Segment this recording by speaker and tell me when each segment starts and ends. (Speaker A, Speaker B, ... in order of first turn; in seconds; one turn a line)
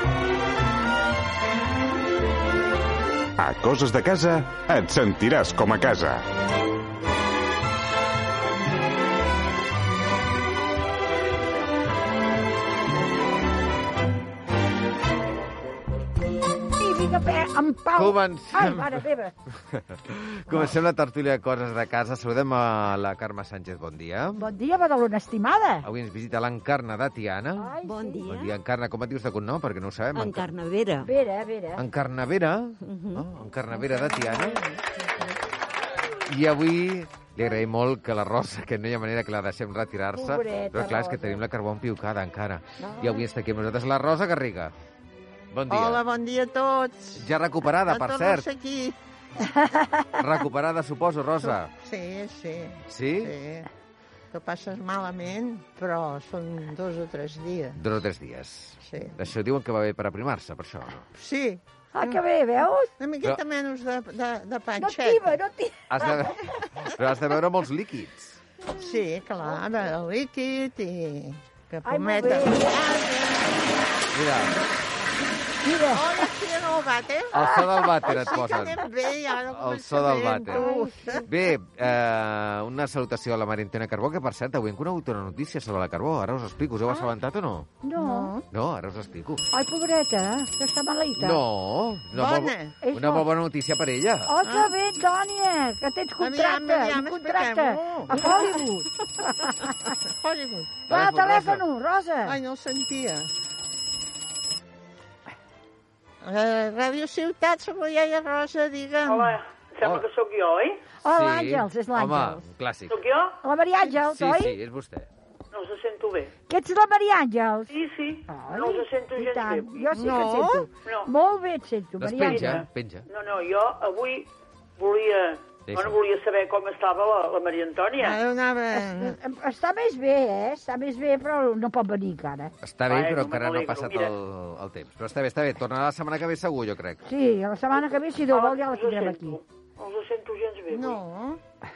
Speaker A: 3.4-6.2
Speaker B: 16.8-19.3
Speaker C: 17.9-19.1
Speaker C: 19.7-24.4
Speaker B: 24.4-25.9
Speaker C: 25.8-27.7
Speaker B: 27.6-28.2
Speaker D: 27.8-28.6
Speaker C: 28.3-30.5
Speaker D: 30.1-31.1
Speaker B: 31.0-31.8
Speaker C: 31.8-34.6
Speaker D: 32.8-33.2
Speaker E: 33.8-35.3
Speaker C: 36.3-44.7
Speaker B: 40.1-41.4
Speaker E: 42.9-43.2
Speaker C: 45.5-46.0
Speaker E: 45.7-47.3
Speaker C: 47.2-48.5
Speaker E: 47.8-49.0
Speaker B: 49.5-50.1
Speaker C: 50.2-51.7
Speaker E: 51.5-53.7
Speaker C: 52.9-53.3
Speaker E: 54.3-57.8
Speaker C: 57.8-61.1
Speaker E: 58.8-59.2
Speaker E: 61.1-62.2
Speaker B: 61.9-62.9
Speaker E: 63.0-65.3
Speaker B: 64.8-66.4
Speaker C: 65.9-68.4
Speaker E: 68.8-73.7
Speaker B: 71.8-72.8
Speaker C: 74.1-74.5
Speaker B: 75.6-76.1
Speaker E: 75.9-81.2
Speaker C: 77.3-78.8
Speaker C: 79.5-80.7
Speaker B: 80.5-81.3
Speaker C: 81.3-87.7
Speaker B: 87.8-88.3
Speaker E: 88.0-88.5
Speaker C: 88.5-89.4
Speaker B: 89.5-91.4
Speaker C: 91.2-94.3
Speaker E: 92.2-92.7
Speaker B: 92.8-93.3
Speaker B: 94.3-99.9
Speaker E: 94.4-94.7
Speaker E: 96.2-98.5
Speaker E: 100.1-100.8
Speaker C: 100.9-101.6
Speaker B: 100.9-102.4
Speaker E: 102.2-103.3
Speaker E: 106.2-109.3
Speaker F: 109.0-110.8
Speaker B: 111.0-112.4
Speaker C: 111.1-113.0
Speaker F: 112.9-113.4
Speaker B: 113.4-114.6
Speaker C: 113.8-115.1
Speaker F: 115.5-116.3
Speaker B: 116.5-117.7
Speaker F: 117.7-119.9
Speaker B: 118.3-122.6
Speaker E: 119.9-120.7
Speaker F: 120.8-121.1
Speaker C: 122.0-123.0
Speaker F: 122.3-128.2
Speaker C: 125.7-126.0
Speaker E: 128.0-129.2
Speaker B: 128.8-132.5
Speaker C: 132.6-137.0
Speaker F: 132.9-134.1
Speaker B: 137.1-139.4
Speaker F: 138.3-141.0
Speaker E: 140.7-141.4